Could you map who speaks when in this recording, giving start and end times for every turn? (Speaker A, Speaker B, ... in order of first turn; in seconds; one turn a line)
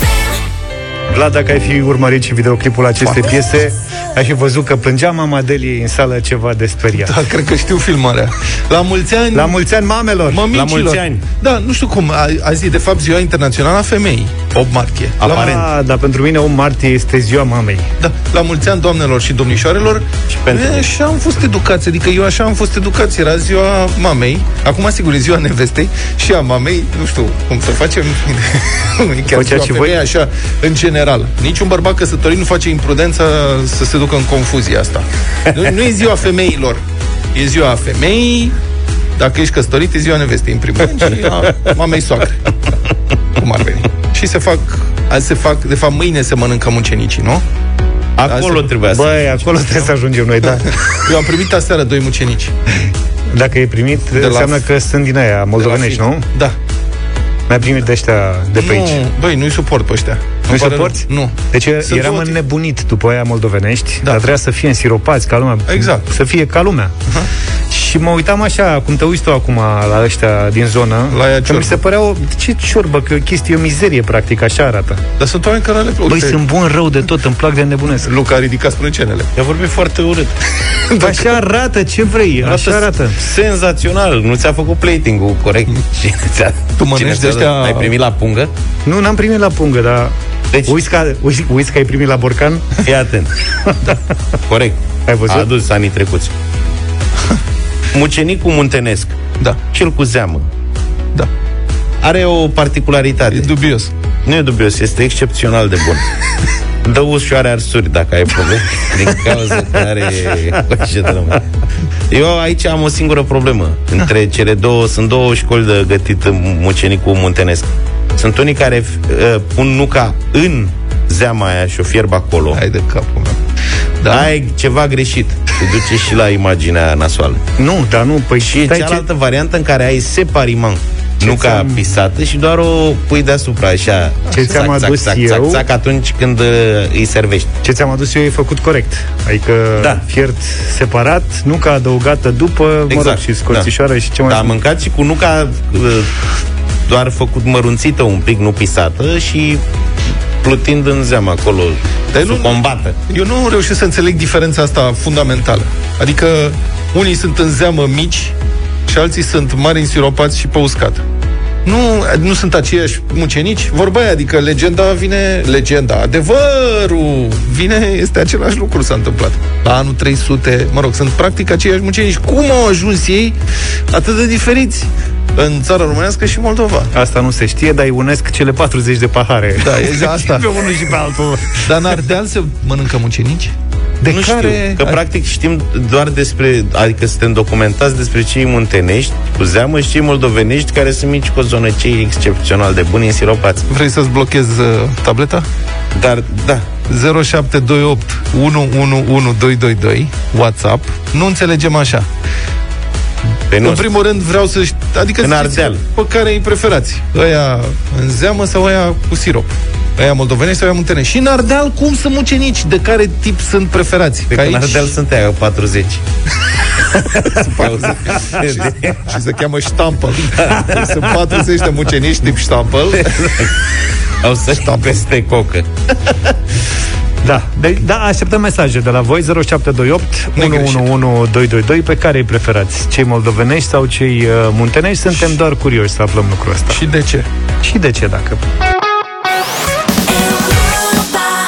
Speaker A: 1.1-7.2
Speaker B: 3.0-3.4
Speaker B: 6.9-9.6
Speaker A: 9.3-10.4
Speaker B: 10.3-15.6
Speaker C: 10.5-11.2
Speaker C: 15.2-15.7
Speaker A: 15.3-17.9
Speaker B: 18.0-36.8
Speaker C: 20.3-20.9
Speaker A: 29.3-29.9
Speaker B: 37.3-38.6
Speaker B: 39.2-42.5
Speaker B: 43.4-47.4
Speaker C: 48.2-49.4
Speaker B: 48.3-48.7
Speaker A: 48.9-50.7
Speaker B: 50.5-52.5
Speaker A: 53.3-56.2
Speaker B: 54.1-54.6
Speaker B: 55.6-56.6
Speaker A: 57.5-59.0
Speaker B: 58.6-62.4
Speaker A: 60.5-66.9
Speaker B: 65.7-66.1
Speaker A: 67.7-75.0
Speaker B: 71.1-71.8
Speaker B: 75.2-76.4
Speaker A: 76.1-78.1
Speaker B: 78.0-79.3
Speaker C: 79.4-80.3
Speaker C: 80.9-81.2
Speaker A: 81.0-83.2
Speaker B: 82.4-82.9
Speaker C: 83.2-88.5
Speaker B: 86.8-87.9
Speaker A: 88.8-90.2
Speaker C: 90.5-90.8
Speaker A: 90.7-92.7
Speaker C: 92.8-93.3
Speaker C: 94.5-96.3
Speaker A: 95.1-95.5
Speaker C: 97.9-99.2
Speaker C: 99.7-100.5
Speaker C: 102.0-103.5
Speaker B: 103.3-103.9
Speaker C: 104.2-106.0
Speaker C: 106.8-111.4
Speaker C: 112.1-122.6
Speaker B: 122.5-123.4
Speaker B: 124.0-124.3
Speaker C: 124.1-127.4
Speaker A: 127.6-129.1
Speaker C: 128.4-137.5
Speaker A: 131.2-131.8
Speaker A: 134.3-135.6
Speaker A: 137.6-144.6
Speaker C: 139.8-140.0
Speaker C: 142.9-143.7
Speaker C: 144.3-146.2
Speaker C: 146.9-149.6
Speaker C: 150.4-153.0
Speaker B: 152.1-158.3
Speaker B: 158.9-161.0
Speaker B: 161.7-173.4
Speaker B: 173.9-176.9
Speaker A: 176.9-181.7
Speaker B: 179.6-180.6
Speaker B: 181.6-185.0
Speaker C: 184.1-193.7
Speaker B: 193.7-195.5
Speaker C: 196.0-196.7
Speaker B: 196.9-202.1
Speaker C: 203.5-203.9
Speaker B: 203.6-214.9
Speaker C: 205.2-205.8
Speaker C: 214.3-216.0
Speaker C: 217.0-219.1
Speaker B: 217.2-223.3
Speaker C: 220.4-221.0
Speaker C: 223.0-223.6
Speaker C: 224.2-226.3
Speaker A: 227.2-236.8
Speaker B: 230.4-230.9
Speaker B: 236.7-237.3
Speaker A: 237.6-238.4